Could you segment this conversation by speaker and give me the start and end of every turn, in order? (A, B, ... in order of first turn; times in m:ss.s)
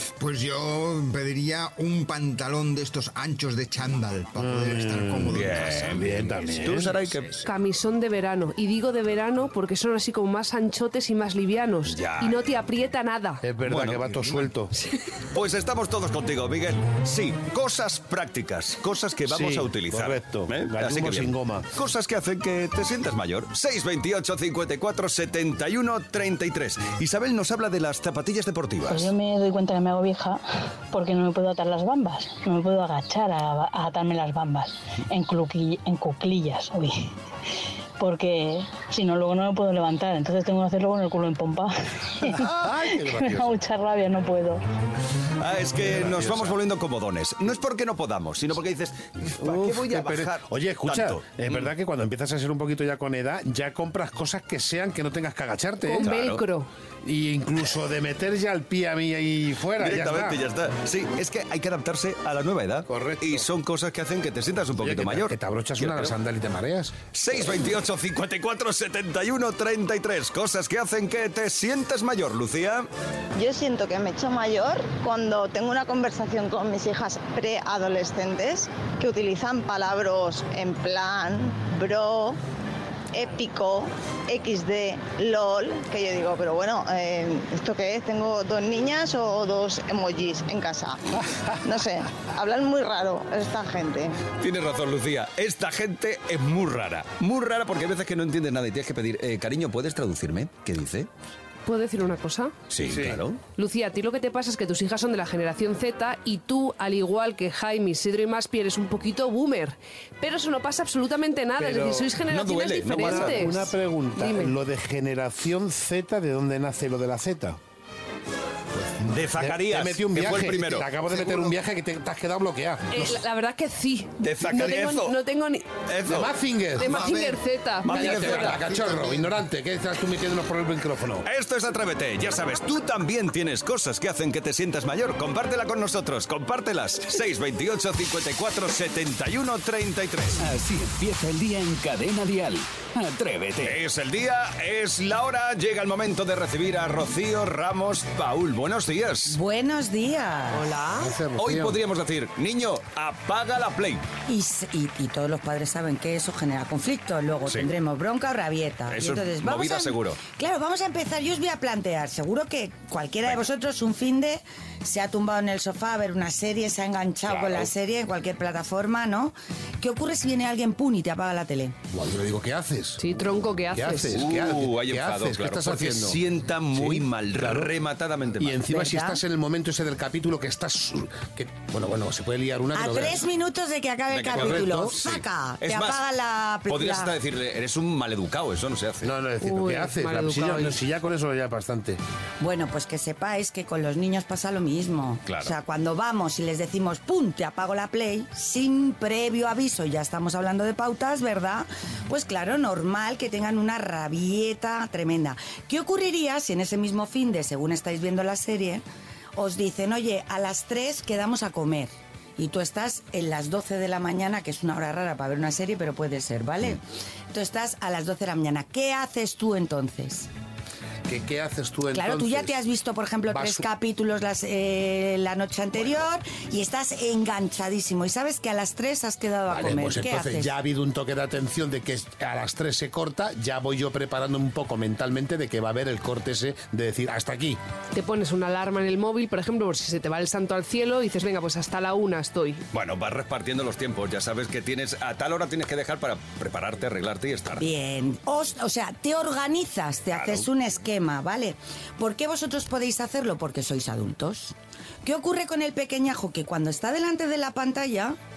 0:00.2-0:06.1 A
0:04.4-0:07.0 B
0:05.3-0:07.4 C
0:07.4-0:13.4 D
0:11.9-0:12.4 C
0:13.4-0:14.7 B
0:13.6-0:14.4 C
0:15.3-0:29.1 C
0:19.3-0:21.7 B
0:28.9-0:37.1 E
0:38.0-0:42.4 E
0:42.4-0:42.7 C
0:42.4-0:43.5 B
0:43.2-0:44.6 E
0:45.4-0:51.7 C
0:45.8-0:46.6 B
0:49.4-0:56.1 B
0:55.8-0:56.7 D
0:56.0-0:56.4 C
0:57.0-1:00.4 B
0:59.8-1:06.1 C
1:02.9-1:03.4 B
1:04.8-1:06.9 B
1:07.1-1:12.9 C
1:13.3-1:22.4 F
1:23.1-1:34.2 F
1:34.4-1:41.1 C
1:41.6-1:42.5 D
1:42.7-1:43.4 C
1:42.8-1:43.2 B
1:43.6-1:54.5 D
1:51.6-1:52.1 B
1:52.3-1:53.6 C
1:53.0-1:57.6 B
1:59.0-2:01.5 C
1:59.0-2:03.1 B
2:02.9-2:05.7 D
2:04.2-2:05.2 C
2:05.9-2:06.3 C
2:06.1-2:06.9 B
2:06.8-2:08.6 D
2:06.8-2:07.4 A
2:07.8-2:08.8 C
2:07.9-2:11.2 B
2:11.2-2:20.4 C
2:20.4-2:23.8 G
2:23.6-2:29.4 C
2:29.3-2:30.8 H
2:30.5-2:31.1 D
2:30.9-2:31.8 B
2:31.4-2:34.0 C
2:34.3-2:51.8 H
2:38.9-2:40.2 C
2:47.2-2:47.7 C
2:51.9-2:53.0 B
2:53.0-2:54.2 D
2:53.7-2:56.2 B
2:54.1-2:58.6 C
2:56.7-2:57.7 B
2:58.4-3:03.2 B
2:58.6-2:59.2 H
3:02.7-3:07.2 H
3:04.1-3:06.0 C
3:04.3-3:04.9 B
3:06.7-3:09.1 C
3:09.0-3:12.0 B
3:09.4-3:10.8 D
3:12.4-3:28.8 H
3:15.2-3:15.6 C
3:29.4-3:40.3 H
3:41.0-3:42.6 B
3:41.9-3:50.5 H
3:43.3-3:43.6 B
3:49.5-3:57.6 B
3:57.9-4:02.6 D
4:02.7-4:07.7 C
4:07.6-4:14.5 H
4:10.1-4:10.5 C
4:15.0-4:18.2 H